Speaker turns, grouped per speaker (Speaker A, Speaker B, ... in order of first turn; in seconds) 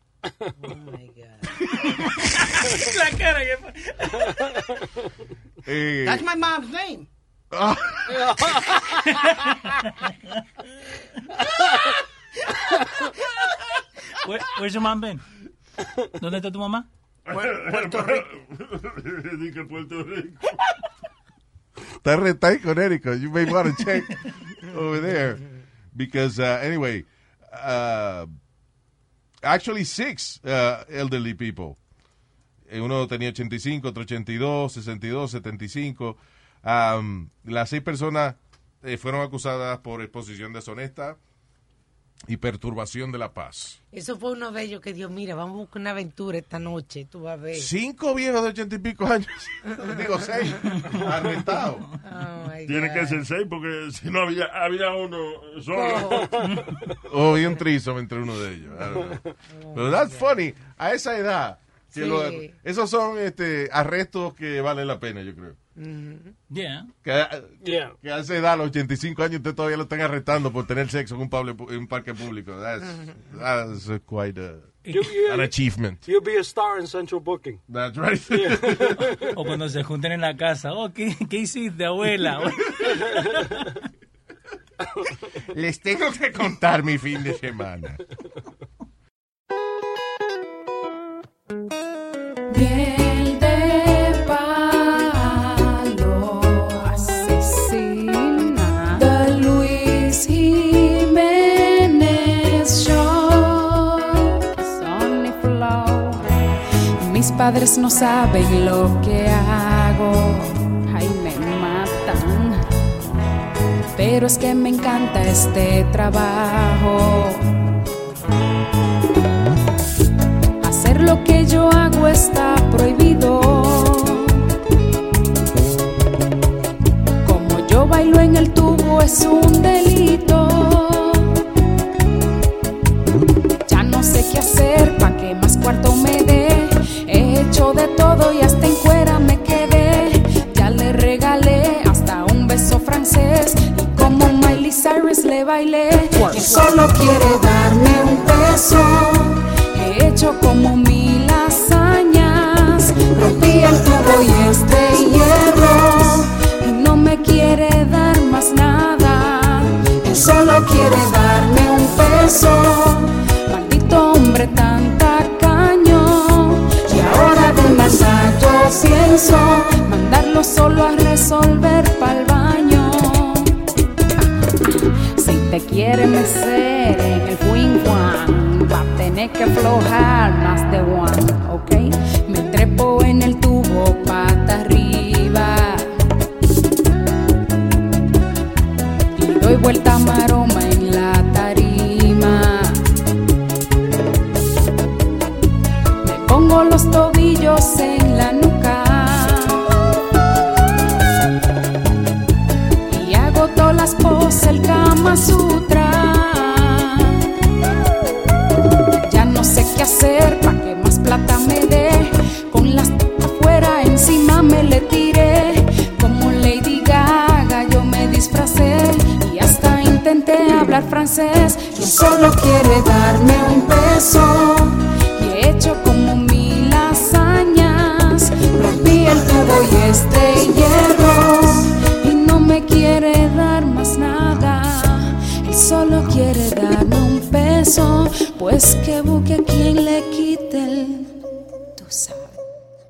Speaker A: 0.6-1.6, 43.9-47.7, 49.8-50.7, 52.0-53.2, 55.7-56.5, 59.5-60.4, 61.9-62.5, 65.8-66.3
Speaker B: 2.0-4.3, 8.9-10.1, 14.1-15.2, 16.2-16.9, 66.5-66.9, 74.8-75.1, 79.1-83.5
Speaker C: 5.6-6.2, 7.5-8.3, 22.0-25.4, 25.9-28.3, 29.4-31.8, 32.7-41.2, 42.3-43.8, 47.5-51.8, 57.1-59.2, 59.7-65.6, 67.0-76.0, 77.7-79.0, 85.5-88.0
Speaker D: 6.0-7.1, 17.3-18.2
Speaker E: 8.1-8.8, 67.6-67.9, 74.9-75.5, 76.0-77.6, 78.3-79.2
Speaker F: 17.2-20.5, 52.6-56.4
Speaker G: 92.5-106.3, 107.0-112.6, 113.9-117.5, 120.6-124.4, 127.2-131.3, 133.7-173.5, 175.2-185.9, 189.1-192.8, 196.0-199.7, 202.9-207.2, 209.0-241.2, 241.8-242.4